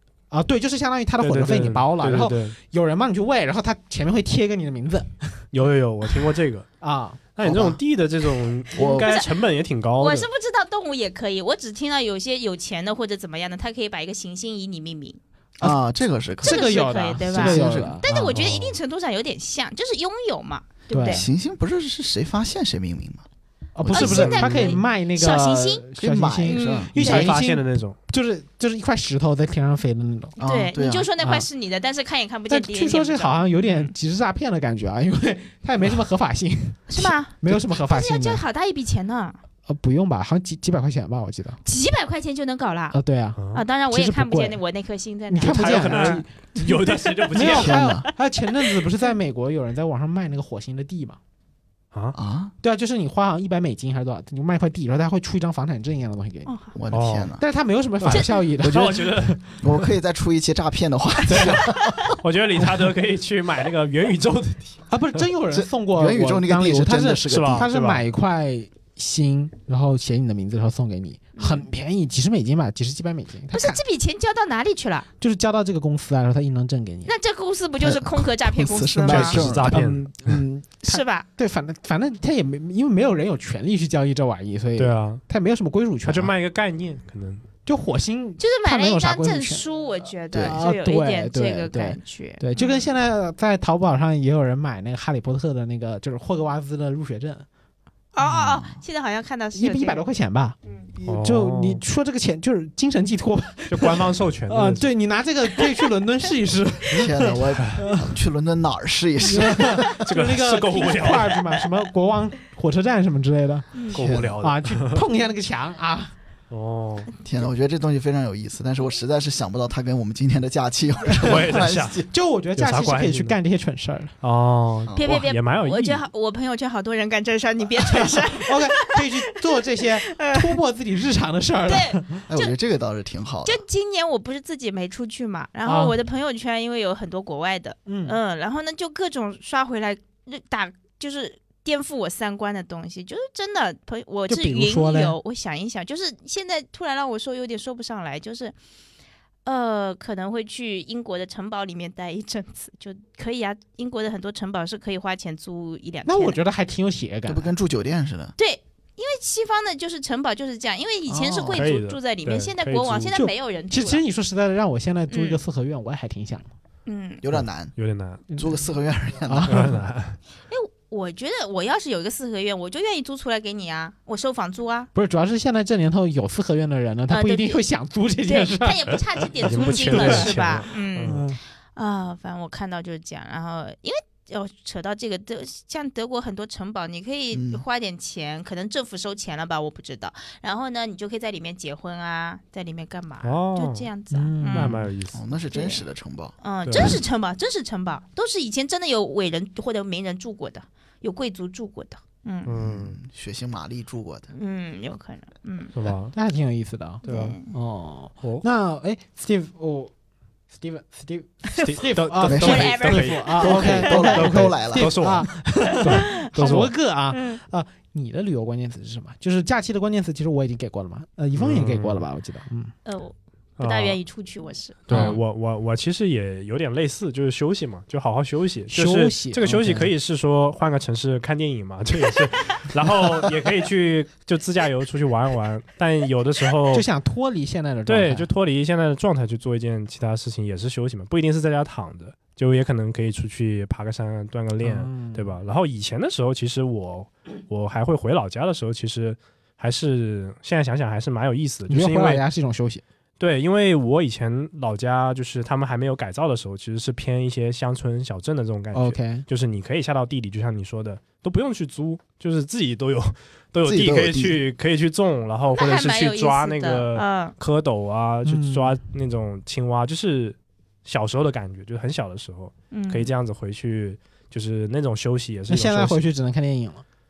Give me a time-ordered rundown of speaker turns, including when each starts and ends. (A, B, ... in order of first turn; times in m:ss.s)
0:00.3-0:05.5 A
0:01.2-0:02.6 B
0:05.5-0:06.6 B
0:06.8-0:07.2 A
0:07.4-0:10.3 B
0:07.4-0:07.8 C
0:08.7-0:09.2 C
0:08.8-0:09.3 D
0:10.0-0:15.2 D
0:15.6-0:18.0 C
0:16.4-0:18.4 A
0:16.4-0:21.3 D
0:18.3-0:18.8 B
0:20.9-0:21.2 A
0:21.0-0:23.2 C
0:23.7-0:30.3 A
0:23.8-0:24.8 C
0:23.9-0:25.8 D
0:26.0-0:26.9 C
0:26.5-0:27.3 D
0:26.9-0:28.0 B
0:30.4-0:31.1 C
0:30.4-0:33.8 D
0:31.2-0:31.4 A
0:32.5-0:38.4 A
0:36.9-0:39.4 D
0:39.7-0:41.6 A
0:41.6-0:43.0 D
0:42.9-0:43.4 A
0:43.4-0:43.6 B
0:43.5-0:46.2 D
0:43.9-0:44.6 A
0:45.3-0:51.2 A
0:45.4-0:47.8 B
0:47.4-0:48.1 C
0:52.1-0:52.5 C
0:52.6-0:56.5 A
0:56.4-0:56.7 D
0:56.7-0:57.4 C
0:56.9-0:57.3 B
0:57.4-0:59.5 A
0:58.0-0:59.6 B
0:58.6-0:59.0 C
0:59.6-1:02.2 C
1:01.3-1:04.8 B
1:04.9-1:13.8 A
1:05.5-1:07.7 C
1:07.3-1:08.0 B
1:11.4-1:11.6 D
1:13.5-1:15.1 D
1:15.2-1:17.1 A
1:17.0-1:19.6 D
1:17.8-1:19.8 C
1:19.0-1:20.4 B
1:19.7-1:26.3 A
1:20.8-1:21.2 D
1:24.8-1:25.2 B
1:26.0-1:27.4 B
1:27.6-1:29.6 A
1:28.4-1:32.9 D
1:30.3-1:30.6 C
1:30.4-1:37.4 A
1:38.1-1:40.0 D
1:38.2-1:38.8 C
1:39.5-1:48.1 A
1:41.0-1:41.8 B
1:43.7-1:44.8 B
1:46.9-1:50.0 C
1:47.5-1:47.8 B
1:49.2-1:53.8 A
1:50.0-1:51.4 B
1:53.7-1:54.0 D
1:53.9-1:55.0 B
1:53.9-1:54.4 C
1:54.4-1:56.1 A
1:56.5-1:57.1 B
1:57.2-2:02.1 C
2:01.1-2:03.3 B
2:02.1-2:04.1 A
2:04.2-2:06.0 B
2:04.8-2:05.1 C
2:05.0-2:09.1 D
2:07.9-2:12.2 A
2:10.0-2:10.6 D
2:11.7-2:12.5 D
2:12.3-2:13.6 C
2:13.4-2:28.5 D
2:15.6-2:16.0 A
2:17.9-2:18.2 A
2:24.3-2:25.2 A
2:29.4-2:36.4 D
2:36.1-2:37.5 A
2:37.3-2:38.3 C
2:38.4-2:44.0 D
2:41.1-2:41.7 C
2:41.5-2:43.2 B
2:43.1-2:46.5 A
2:45.1-2:45.4 D
2:46.8-2:47.2 D
2:47.2-2:47.7 C
2:47.3-2:48.2 B
2:48.4-2:49.7 C
2:49.3-2:49.7 A
2:49.5-2:50.2 B
2:50.5-2:54.9 D
2:54.9-3:01.4 A
2:57.1-2:57.6 D
2:58.2-3:14.8 D
2:59.4-3:01.2 B
3:07.3-3:07.6 C
3:13.2-3:13.9 B
3:14.1-3:14.9 A
3:14.5-3:15.2 B
3:15.1-3:16.9 C
3:15.5-3:15.8 D
3:16.4-3:22.5 D
3:16.6-3:17.0 B
3:22.4-3:23.0 B
3:22.5-3:24.3 C
3:24.3-3:25.7 D
3:25.7-3:26.1 B
3:26.1-3:29.9 A
3:27.0-3:27.5 D
3:27.0-3:27.4 B
3:30.5-3:42.7 A
3:31.6-3:36.7 B
3:32.2-3:32.7 C
3:32.4-3:34.1 D
3:33.4-3:34.9 C
3:35.9-3:37.4 D
3:41.4-3:42.0 B
3:42.8-3:45.1 D
3:43.6-3:44.0 B
3:44.9-3:56.8 B
3:44.9-3:45.2 A
3:48.7-3:49.9 A
3:56.7-3:58.3 A
3:57.9-4:12.2 B
4:04.6-4:05.4 A
4:11.7-4:12.8 A
4:13.2-4:36.0 B
4:18.7-4:19.2 A
4:23.6-4:24.4 C
4:25.5-4:27.3 D
4:28.2-4:28.8 A
4:32.7-4:33.1 D
4:35.5-4:36.8 A